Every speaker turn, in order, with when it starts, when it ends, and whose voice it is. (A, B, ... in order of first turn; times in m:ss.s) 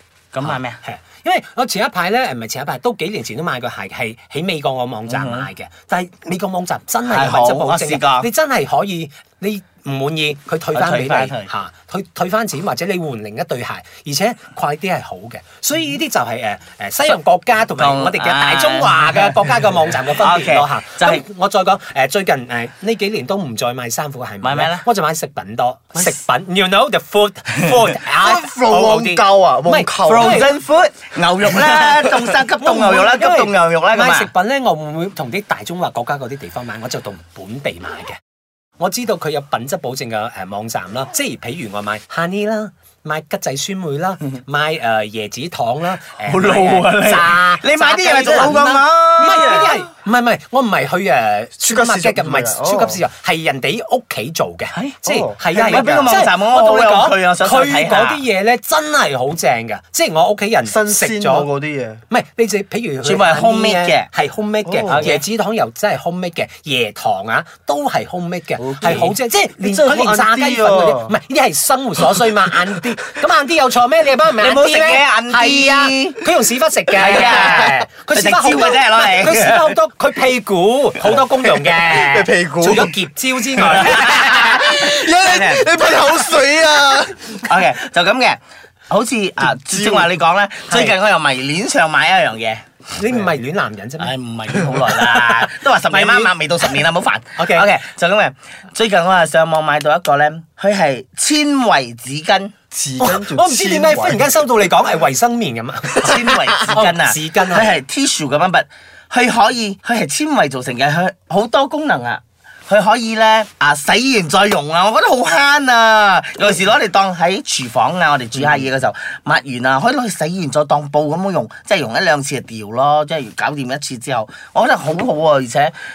0:00.3-0:00.8 A
0:00.4-0:30.5 B
0:05.1-0:05.5 A
0:07.1-0:08.3 A
0:10.7-0:11.5 A
0:17.7-0:19.4 A
0:20.1-0:21.2 A
0:24.4-0:24.8 A
0:27.6-0:27.8 A
0:28.2-0:30.4 C
0:30.0-0:34.3 A
0:32.6-0:38.2 B
0:38.8-1:01.5 B
0:46.2-0:49.8 A
0:49.3-0:49.7 C
0:51.6-0:53.0 C
0:54.7-0:55.0 A
0:55.1-0:56.2 C
0:55.6-0:58.2 A
1:00.6-1:02.0 C
1:02.1-1:24.6 B
1:03.0-1:04.1 A
1:04.6-1:05.0 C
1:04.9-1:05.2 A
1:08.6-1:09.2 A
1:09.6-1:11.1 C
1:14.4-1:16.2 A
1:16.9-1:19.7 A
1:21.0-1:21.2 A
1:21.4-1:23.0 C
1:23.6-1:27.5 C
1:23.7-1:26.4 A
1:27.3-1:32.6 A
1:29.7-1:30.1 C
1:30.7-1:31.0 B
1:32.9-1:34.1 B
1:34.0-1:42.5 A
1:35.3-1:36.3 B
1:37.4-1:37.7 B
1:42.7-1:44.3 C
1:43.0-1:47.8 B
1:46.0-2:05.7 A